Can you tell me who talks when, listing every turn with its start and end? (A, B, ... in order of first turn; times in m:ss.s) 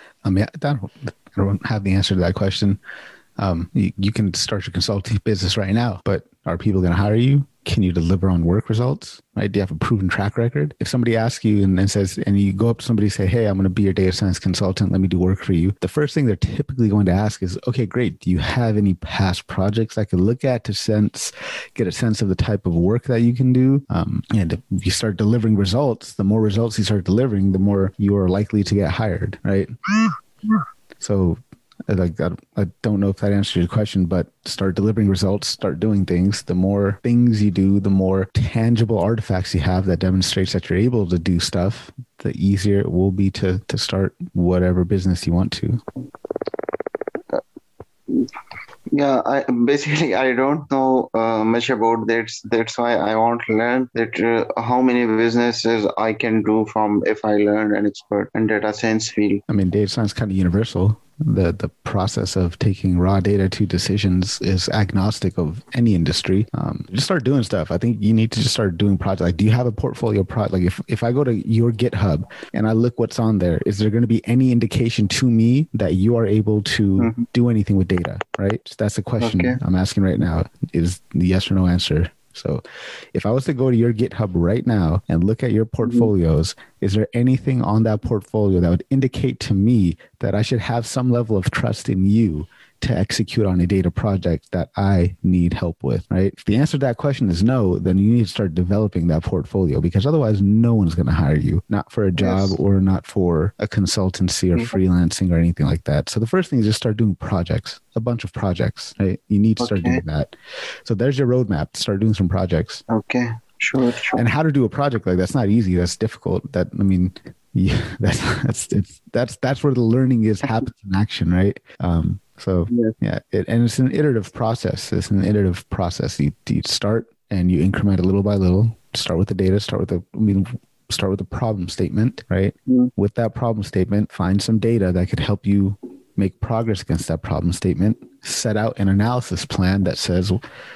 0:00.2-0:02.8 A
0:03.4-0:29.7 A
0:31.0-0:45.8 A
0:48.9-0:59.4 B
0:59.5-1:22.6 A
1:17.0-1:17.2 B
1:19.2-1:19.6 B
1:23.1-1:50.3 A
1:42.2-1:42.6 B
1:49.6-1:50.0 B
1:50.8-1:52.8 A
1:52.9-1:54.2 B
1:54.1-2:20.4 A